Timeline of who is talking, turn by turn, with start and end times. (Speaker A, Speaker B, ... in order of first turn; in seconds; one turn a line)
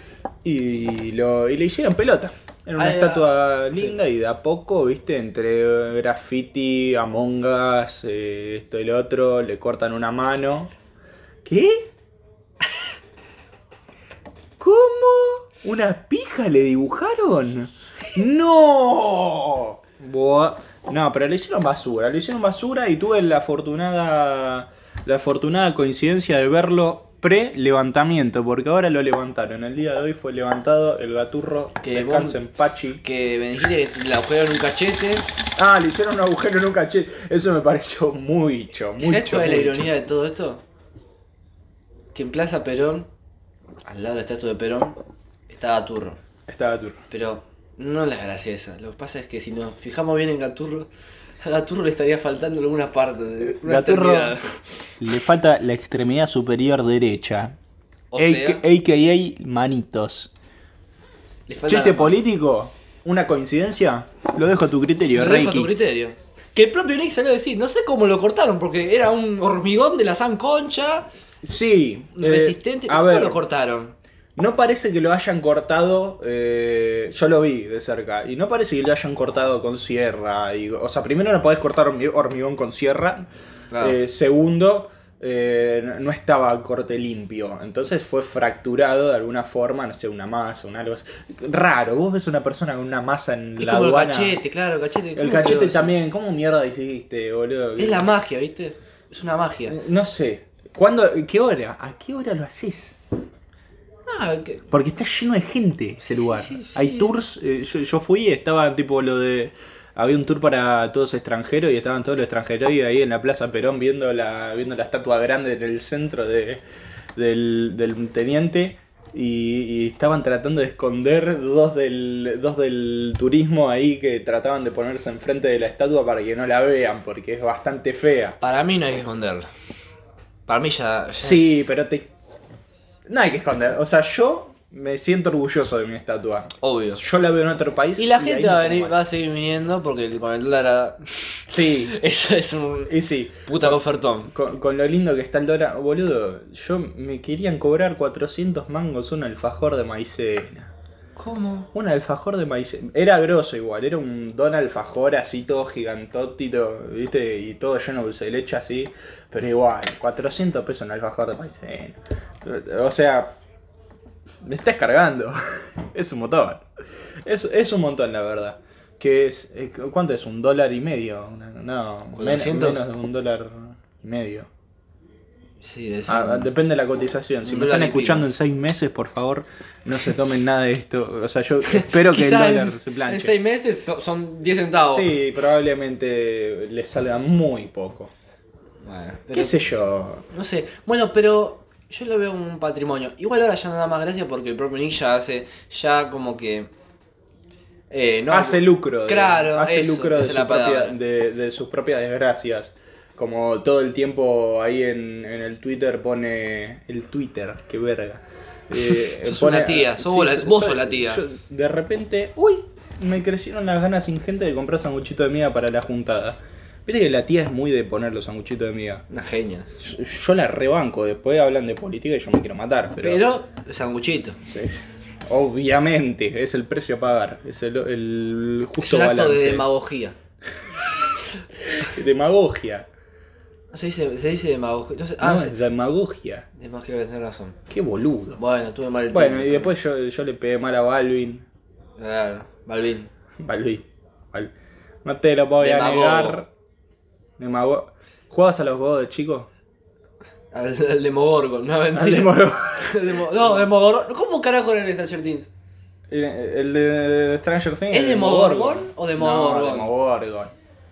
Speaker A: 0.4-10.7
Speaker B: 2.8-3.9
Speaker A: 11.4-11.9
Speaker A: 14.6-33.0
Speaker B: 31.8-32.4
Speaker B: 33.0-35.3
Speaker A: 35.6-39.9
Speaker B: 39.0-40.6
Speaker B: 42.1-43.1
Speaker B: 43.9-46.2
Speaker A: 46.5-47.0
Speaker B: 47.1-50.9
Speaker B: 51.4-55.0
Speaker A: 53.4-54.4
Speaker A: 55.0-57.6
Speaker B: 58.1-58.6
Speaker A: 58.2-60.3
Speaker B: 61.5-62.2
Speaker A: 61.7-65.7
Speaker B: 65.2-71.1
Speaker A: 71.4-73.4
Speaker B: 72.2-74.0
Speaker A: 74.4-83.3
Speaker B: 83.7-84.0
Speaker A: 83.8-94.4
Speaker B: 93.6-95.9
Speaker A: 95.2-98.1
Speaker B: 97.8-99.8
Speaker A: 99.7-103.0
Speaker B: 104.1-104.7
Speaker A: 104.7-116.6
Speaker B: 106.0-107.2
Speaker A: 117.2-128.4
Speaker B: 128.4-129.5
Speaker B: 130.5-131.7
Speaker A: 131.2-132.1
Speaker A: 133.1-139.0
Speaker B: 136.6-137.0
Speaker B: 138.0-144.3
Speaker A: 141.5-142.0
Speaker A: 142.9-150.7
Speaker B: 151.2-151.7
Speaker A: 151.7-163.4
Speaker A: 164.4-166.7
Speaker A: 167.2-174.5
Speaker B: 172.1-172.8
Speaker B: 175.6-176.5
Speaker A: 176.1-183.3
Speaker B: 177.4-178.3
Speaker B: 181.7-185.1
Speaker A: 184.6-188.1
Speaker B: 188.8-189.6
Speaker A: 189.3-190.2
Speaker B: 190.3-196.7
Speaker B: 197.9-201.0
Speaker A: 198.3-219.1
Speaker B: 208.8-211.2
Speaker B: 219.1-219.7
Speaker A: 219.8-223.2
Speaker B: 223.0-224.4
Speaker A: 224.4-229.7
Speaker B: 228.8-230.2
Speaker A: 231.7-232.9
Speaker B: 233.7-235.6
Speaker A: 235.2-236.5
Speaker B: 236.6-237.6
Speaker A: 237.7-238.4
Speaker B: 238.4-239.7
Speaker A: 239.1-241.5
Speaker B: 242.0-243.1
Speaker A: 243.4-244.5
Speaker A: 245.0-246.5
Speaker B: 245.6-246.4
Speaker A: 247.4-249.5
Speaker B: 250.5-255.5
Speaker A: 251.9-253.6
Speaker A: 256.1-260.5
Speaker B: 257.9-259.9